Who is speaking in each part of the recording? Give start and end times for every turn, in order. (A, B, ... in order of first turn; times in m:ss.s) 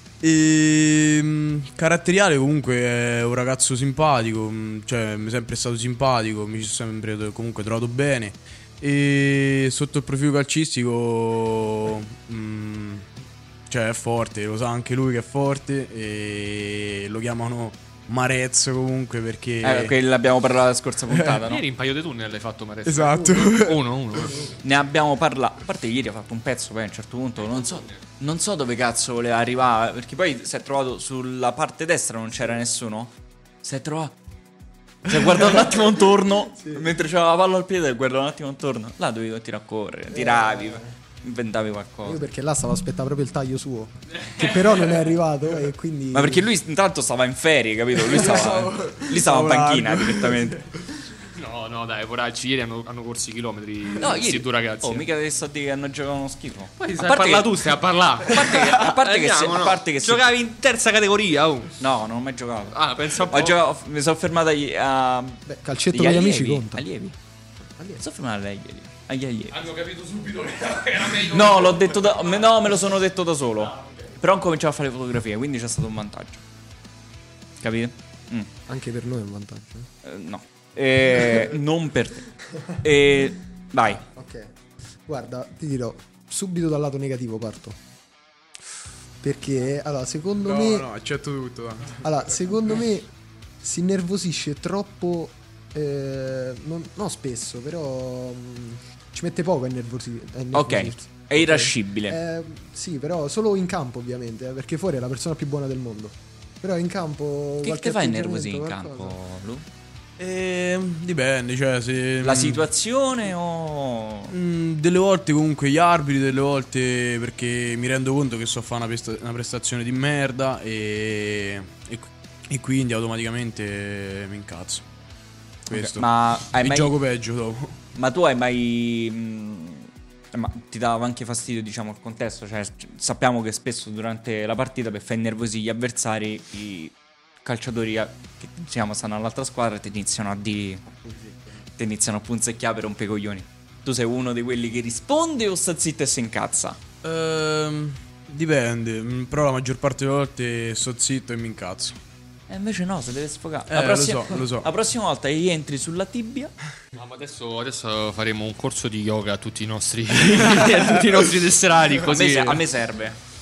0:00.2-0:13.1 A
0:13.7-0:20.0 A
0:19.6-0:21.6 B
0:21.1-0:21.4 A
0:21.4-0:24.5 C
0:22.8-0:23.8 A
0:24.2-0:24.6 D
0:24.6-0:34.1 B
0:35.0-0:42.2 B
0:36.5-0:36.9 D
0:40.1-0:40.9 D
0:42.0-0:46.5 D
0:46.1-0:50.6 B
0:48.0-0:50.6 A
0:51.3-0:55.1 C
0:54.0-1:00.2 B
0:56.8-1:01.8 C
1:01.8-1:07.2 B
1:02.7-1:03.6 C
1:05.4-1:06.8 D
1:07.8-1:08.0 D
1:08.0-1:09.6 B
1:09.5-1:12.1 C
1:11.3-1:16.4 B
1:17.6-1:18.5 B
1:18.7-1:19.9 D
1:20.0-1:22.3 B
1:22.8-1:24.0 B
1:24.0-1:24.5 D
1:25.0-1:27.8 D
1:29.2-1:30.9 D
1:30.4-1:32.1 A
1:32.0-1:33.1 D
1:33.6-1:49.2 D
1:40.5-1:42.2 B
1:47.6-1:49.6 B
1:50.2-1:52.6 A
1:52.2-1:54.3 B
1:54.3-2:04.8 A
2:05.7-2:07.7 A
2:05.7-2:07.0 B
2:07.9-2:20.8 B
2:21.0-2:21.6 D
2:21.8-2:26.8 B
2:27.0-2:32.0 A
2:32.5-2:36.5 B
2:33.7-2:34.7 A
2:36.9-2:42.6 C
2:42.1-2:43.2 B